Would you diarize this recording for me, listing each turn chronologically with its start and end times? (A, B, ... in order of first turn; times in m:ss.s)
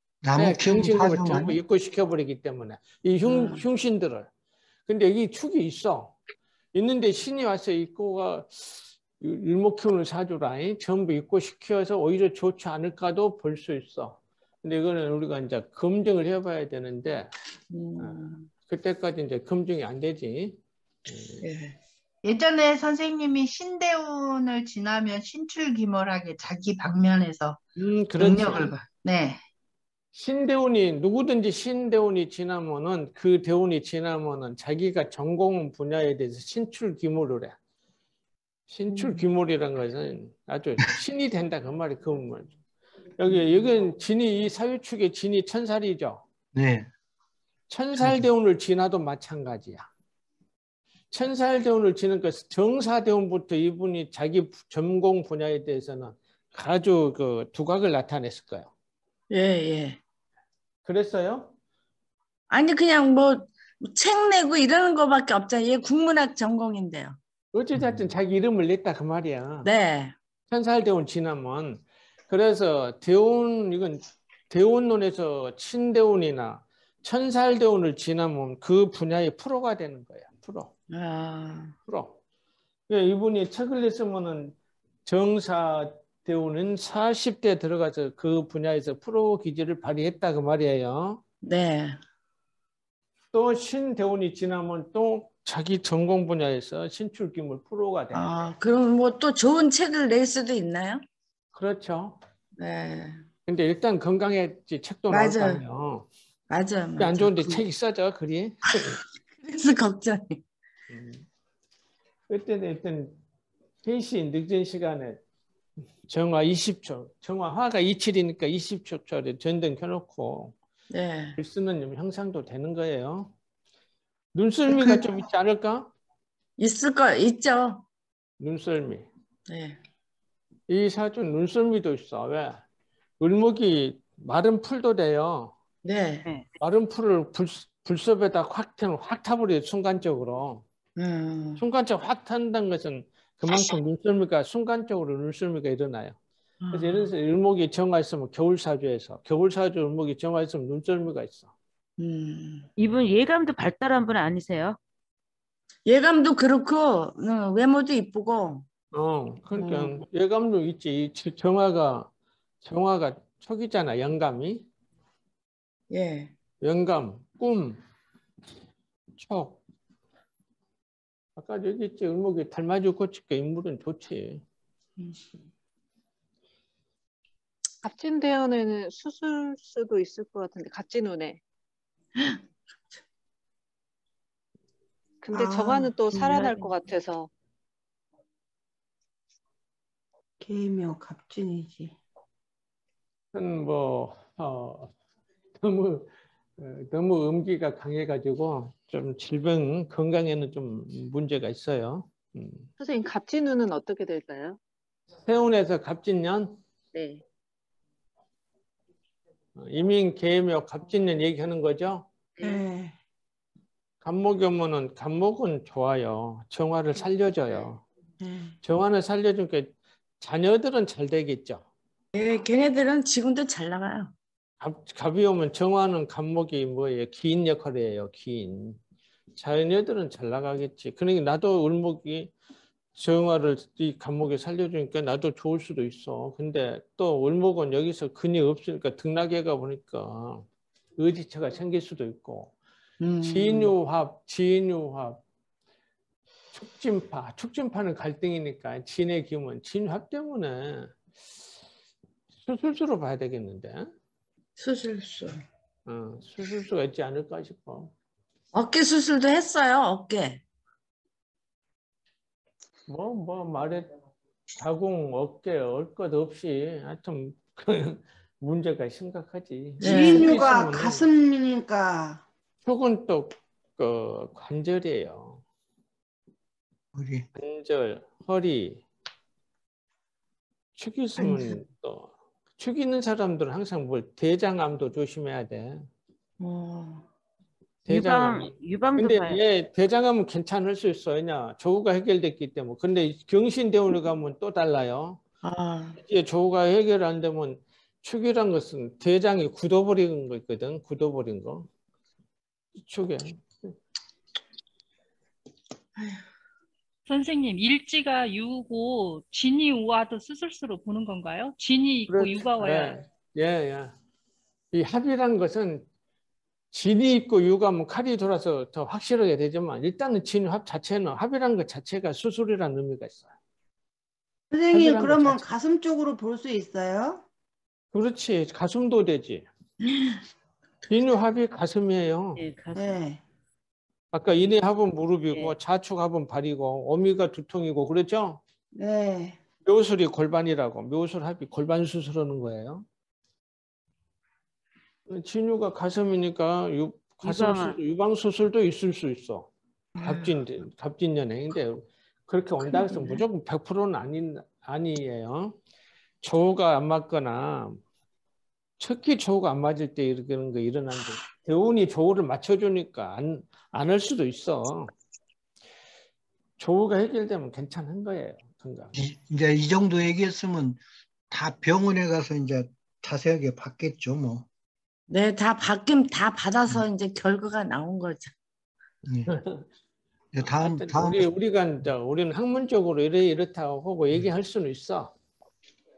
0:00.2-0:01.6 A
0:00.4-0:04.3 B
0:03.2-0:03.6 C
0:04.9-0:06.2 B
0:06.7-0:17.3 B
0:17.7-0:18.5 C
0:18.0-0:21.4 B
0:21.4-0:21.8 C
0:22.2-0:27.6 D
0:27.8-0:28.7 B
0:28.2-0:29.4 D
0:30.1-0:37.6 B
0:38.7-0:42.5 B
0:43.2-0:46.2 B
0:46.6-0:46.9 A
0:47.7-0:49.9 B
0:48.0-0:48.3 A
0:51.1-0:58.7 B
0:59.3-1:00.0 C
1:00.8-1:01.5 B
1:02.5-1:07.2 C
1:07.5-1:09.7 B
1:07.8-1:08.1 A
1:09.6-1:10.1 C
1:10.5-1:20.7 B
1:20.9-1:21.7 C
1:21.9-1:22.2 B
1:22.9-1:31.2 B
1:31.4-1:32.0 C
1:33.3-1:38.2 B
1:38.1-1:41.0 C
1:41.5-1:42.2 B
1:42.6-1:43.2 C
1:43.5-1:46.1 B
1:45.1-1:45.6 C
1:46.5-1:47.6 C
1:47.0-1:49.0 B
1:48.7-1:50.4 C
1:50.9-1:51.2 B
1:52.3-1:53.2 B
1:53.8-1:55.2 B
1:56.1-2:00.6 B
2:00.9-2:01.4 C
2:01.4-2:03.3 B
2:04.3-2:05.9 B
2:04.7-2:05.0 C
2:06.6-2:07.8 C
2:08.4-2:09.1 B
2:09.5-2:09.8 C
2:10.7-2:12.6 B
2:13.2-2:15.5 B
2:15.8-2:16.3 C
2:16.6-2:20.6 B
2:21.0-2:21.6 C
2:21.6-2:26.2 B
2:26.6-2:27.1 C
2:26.7-2:31.5 B
2:32.0-2:32.7 C
2:32.8-2:34.8 E
2:35.9-2:38.6 C
2:38.9-2:42.1 B
2:39.6-2:40.0 C
2:42.6-2:44.6 B
2:45.9-2:46.3 C
2:46.6-2:47.8 B
2:49.2-2:49.6 B
2:51.4-2:54.4 B
2:57.8-3:01.4 F
3:02.2-3:02.4 C
3:05.2-3:07.3 F
3:05.3-3:05.9 G
3:06.2-3:06.7 E
3:10.4-3:12.0 G
3:13.3-3:14.9 B
3:15.6-3:22.7 B
3:22.8-3:24.6 F
3:25.3-3:26.6 B
3:27.0-3:27.2 F
3:29.6-3:32.1 B
3:32.4-3:32.9 G
3:34.0-3:37.8 B
3:38.2-3:38.5 G
3:38.6-3:41.6 B
3:42.2-3:44.1 C
3:44.6-3:48.8 B
3:49.4-3:52.3 B
3:53.0-4:00.5 B
4:01.0-4:02.5 B
4:03.0-4:03.7 C
4:03.2-4:05.2 B
4:06.5-4:11.0 B
4:12.4-4:13.9 B
4:14.6-4:15.4 C
4:15.9-4:17.9 B
4:18.5-4:20.4 C
4:22.9-4:23.9 B
4:24.6-4:31.1 B
4:29.8-4:32.2 G
4:29.8-4:30.4 C
4:32.6-4:35.4 B
4:36.9-4:37.3 A
4:37.4-4:38.8 B
4:40.8-4:45.9 B
4:41.2-4:41.5 C
4:46.4-4:47.0 C
4:47.8-4:55.2 B
4:47.9-4:49.4 E
4:55.4-4:56.0 C
4:56.0-5:01.7 B
5:02.8-5:03.7 B
5:07.1-5:13.0 H
5:12.1-5:13.9 B
5:14.7-5:15.9 B
5:16.7-5:23.3 B
5:24.5-5:27.2 G
5:24.7-5:25.4 B
5:27.9-5:29.5 B
5:29.8-5:30.2 C
5:30.9-5:32.4 B
5:32.4-5:33.0 E
5:32.8-5:33.2 G
5:34.1-5:38.4 B
5:38.8-5:39.4 G
5:39.7-5:42.8 B
5:45.1-5:49.5 B
5:47.2-5:47.8 E
5:50.0-5:50.3 C
5:50.0-5:55.6 B
5:52.7-5:53.2 C
5:56.2-5:57.8 B
5:58.8-6:04.9 B
6:06.6-6:09.0 B
6:09.0-6:14.5 A
6:15.1-6:18.3 C
6:19.0-6:19.3 A
6:19.3-6:19.6 B
6:20.3-6:21.3 A
6:20.4-6:25.1 B